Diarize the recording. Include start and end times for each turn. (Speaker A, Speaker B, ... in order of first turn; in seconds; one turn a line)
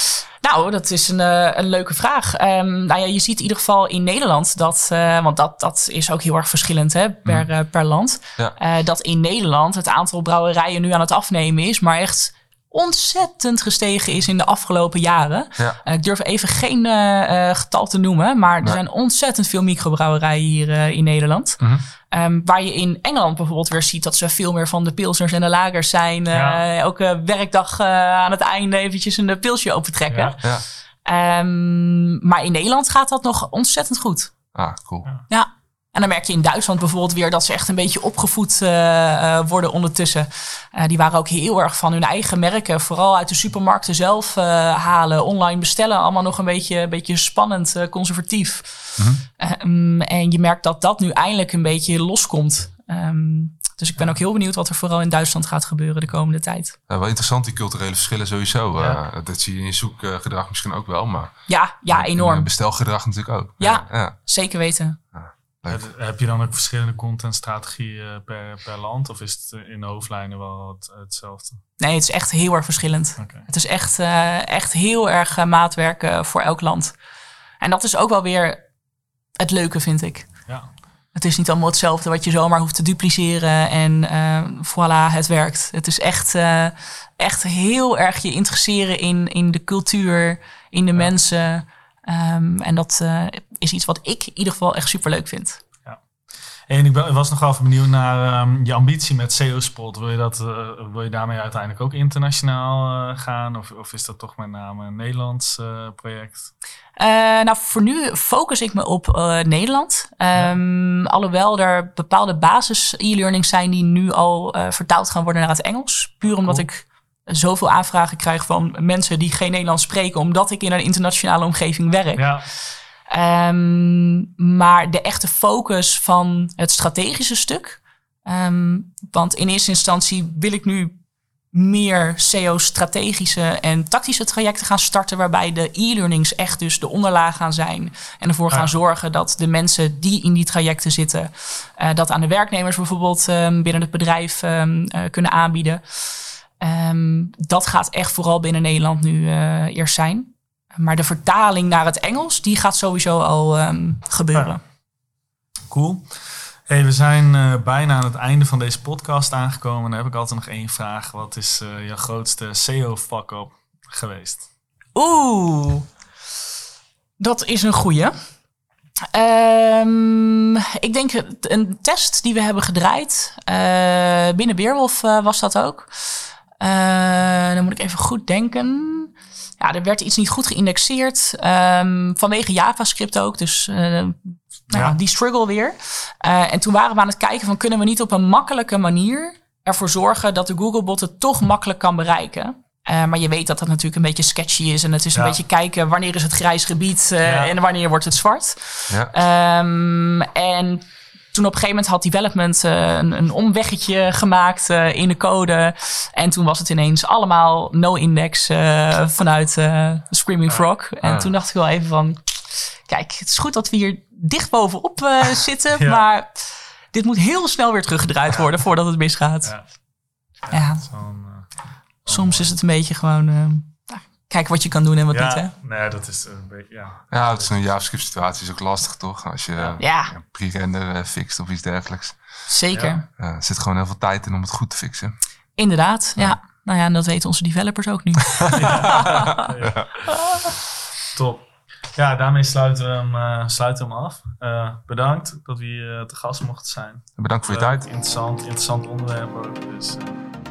Speaker A: 0.4-30.5
Speaker B: 21.6-21.8
Speaker C: 26.3-26.6
Speaker C: 30.1-30.4
Speaker A: 31.1-34.3
Speaker B: 34.5-35.1
Speaker A: 35.3-56.8
Speaker B: 49.0-49.2
Speaker B: 56.9-64.2
Speaker A: 61.5-62.5
Speaker A: 63.6-65.0
Speaker B: 65.1-65.9
Speaker C: 65.7-71.6
Speaker A: 71.8-77.0
Speaker C: 73.2-73.5
Speaker A: 77.6-78.6
Speaker A: 79.4-80.5
Speaker A: 81.1-95.6
Speaker C: 96.7-106.5
Speaker A: 107.0-122.3
Speaker C: 116.3-116.7
Speaker C: 122.2-122.5
Speaker A: 123.1-130.9
Speaker A: 131.5-145.8
Speaker A: 146.6-154.6
Speaker C: 155.7-164.5
Speaker A: 164.9-165.9
Speaker A: 167.2-168.1
Speaker A: 169.1-219.6
Speaker C: 184.7-185.0
Speaker C: 195.1-195.4
Speaker C: 197.2-197.5
Speaker B: 211.0-211.3
Speaker C: 215.8-216.0
Speaker C: 220.4-222.5
Speaker A: 220.5-220.8
Speaker A: 222.1-225.5
Speaker C: 225.1-227.6
Speaker B: 227.1-232.2
Speaker A: 229.8-230.1
Speaker A: 232.5-233.1
Speaker B: 233.2-235.2
Speaker A: 235.6-239.5
Speaker C: 238.5-240.1
Speaker B: 239.6-239.9
Speaker C: 241.1-250.2
Speaker B: 247.2-247.9